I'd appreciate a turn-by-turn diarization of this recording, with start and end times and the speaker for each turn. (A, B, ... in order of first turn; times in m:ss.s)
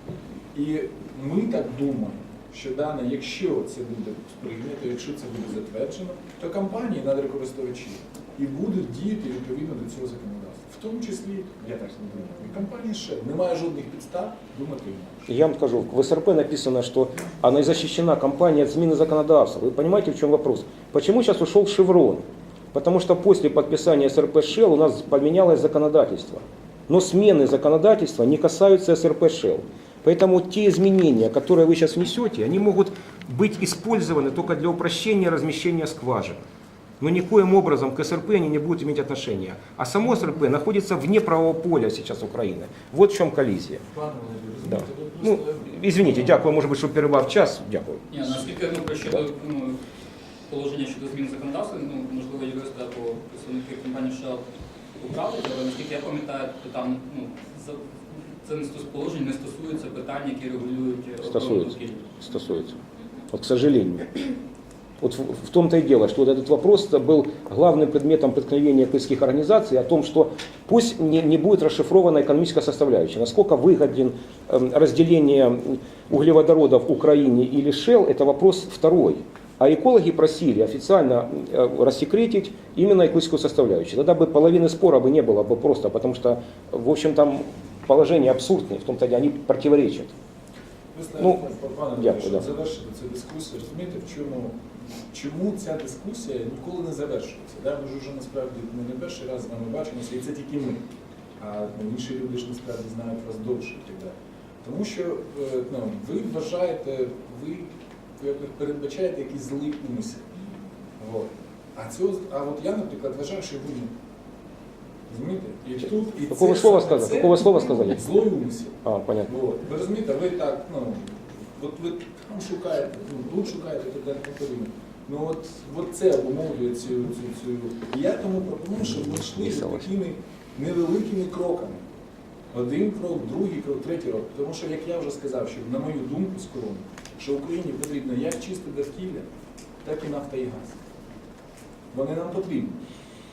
0:00.5-0:15.3 A
0:15.3-0:36.4 B
0:37.0-0:43.9 B
0:43.9-0:46.5 A
0:44.7-0:48.5 B
0:48.1-0:49.8 C
0:50.5-0:54.4 C
0:55.0-0:57.8 C
0:58.4-1:02.2 C
1:01.3-1:02.8 B
1:03.3-1:04.4 B
1:05.0-1:30.1 B
1:30.9-1:34.6 A
1:32.0-1:32.5 B
1:35.1-1:40.8 A
1:41.4-1:50.3 A
1:51.0-1:53.9 A
1:55.1-2:11.8 A
1:56.3-1:58.1 B
1:58.8-1:59.3 B
2:09.4-2:09.9 B
2:12.5-2:19.3 A
2:19.8-2:20.8 A
2:21.9-2:22.8 A